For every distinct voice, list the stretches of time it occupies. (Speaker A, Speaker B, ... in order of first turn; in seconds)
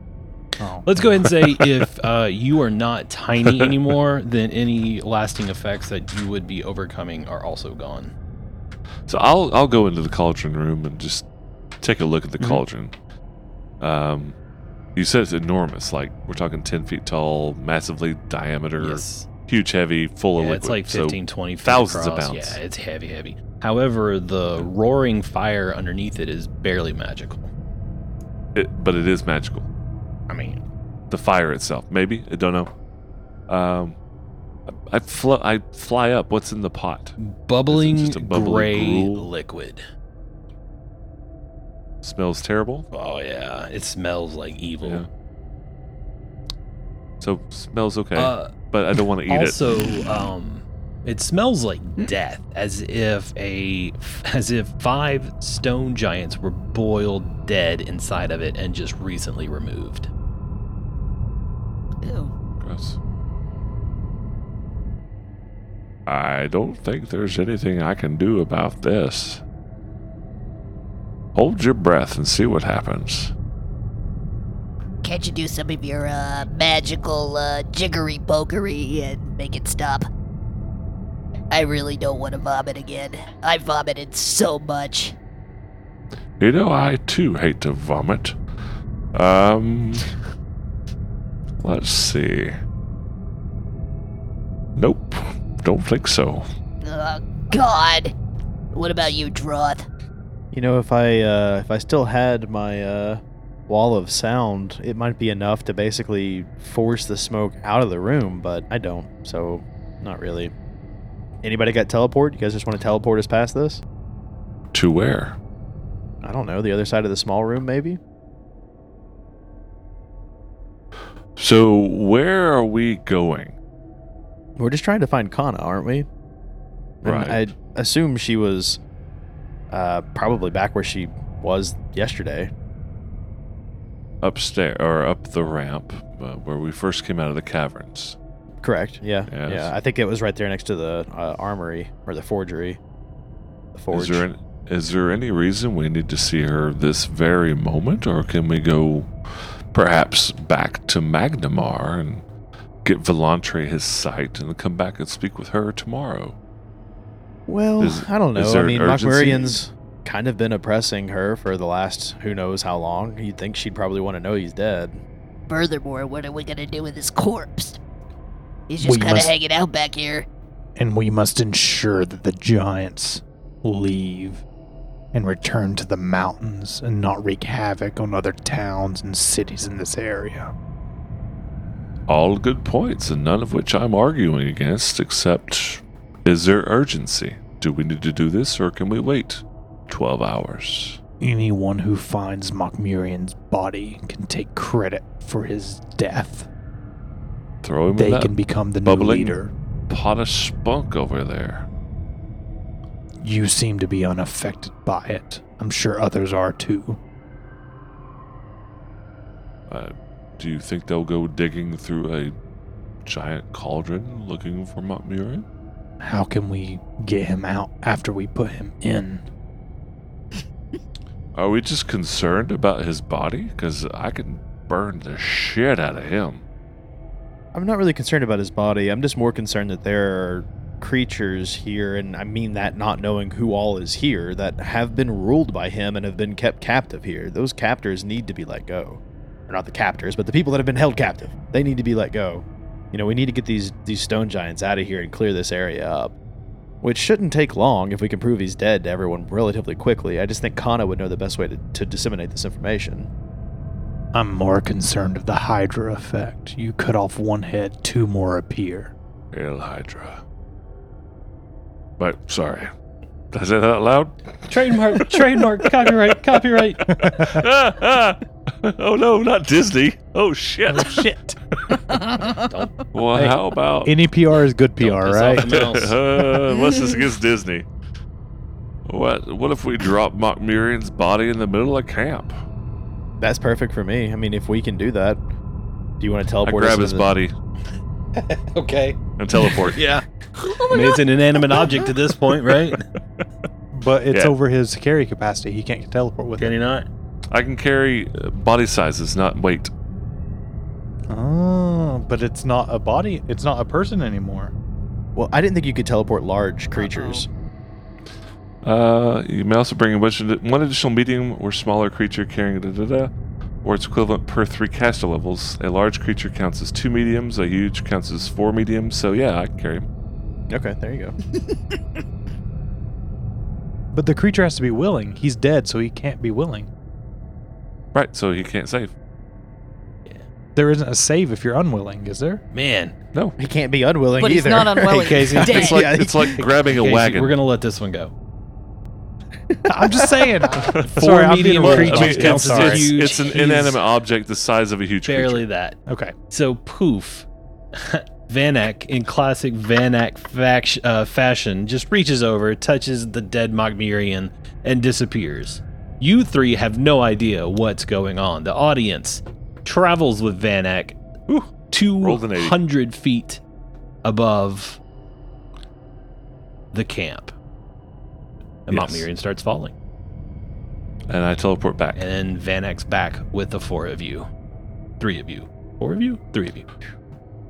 Speaker A: 0.6-0.9, 168.8-169.3, 170.8-174.4, 175.1-180.5, 191.2-196.5, 197.9-199.5, 203.2-207.0, 216.0-219.2, 254.1-258.9, 267.0-267.4, 270.7-271.4, 273.1-275.5, 293.7-296.5, 301.1-304.5, 323.9-326.7, 330.5-332.4, 339.7-343.0, 345.9-346.1
Speaker B: 0.8-8.1, 18.8-19.3, 20.4-27.5, 30.3-30.6, 37.2-39.8, 42.9-45.0, 48.1-48.5, 49.2-60.1, 264.5-266.9, 272.3-272.7, 274.8-276.0, 288.1-292.9, 296.4-296.9, 332.5-332.9, 335.0-335.8, 336.4-338.1, 340.8-343.8, 345.0-345.8, 346.3-363.4, 364.0-364.8, 366.7-367.3, 368.7-369.7, 371.9-374.3, 375.0-376.7
Speaker C: 9.1-11.2, 11.8-12.9, 13.8-14.3, 14.9-22.6, 28.5-29.7, 31.1-32.7, 33.5-34.0, 34.7-37.1, 37.7-39.3, 42.0-42.9, 47.2-49.6, 62.6-63.0, 66.1-69.4, 71.3-73.3, 86.4-88.3, 89.1-90.1, 91.6-92.5, 94.8-96.5, 114.7-115.4, 121.4-123.5, 127.0-127.4, 134.2-138.2, 139.3-139.7, 143.9-152.2, 152.8-156.3, 157.8-159.6, 182.1-191.0, 197.6-199.4, 199.9-201.7, 209.7-212.3, 213.0-215.4, 221.3-226.4, 259.3-260.2, 262.0-262.7, 263.3-265.2, 266.9-271.1, 271.7-271.9, 272.9-274.0, 275.4-277.6, 278.9-282.4, 286.4-287.3, 289.2-289.8, 297.3-299.7, 308.6-313.1, 313.6-319.9, 327.9-328.9, 335.4-337.4, 340.6-345.4, 362.0-362.6, 368.7-369.1, 371.1-372.0
Speaker D: 62.0-62.3, 306.8-307.2, 334.2-335.9
Speaker E: 75.0-80.1, 81.5-85.2, 96.8-98.1, 98.7-99.8, 165.5-167.8, 168.7-170.2
Speaker F: 100.5-110.5, 111.4-113.8, 116.2-118.0, 124.6-126.1, 127.0-128.8, 129.7-132.5, 138.6-142.8, 143.7-144.2, 157.5-165.0, 227.5-246.1, 246.8-253.1, 283.2-285.2, 286.0-287.1, 305.1-307.3, 320.5-321.2, 333.4-336.4, 339.5-340.2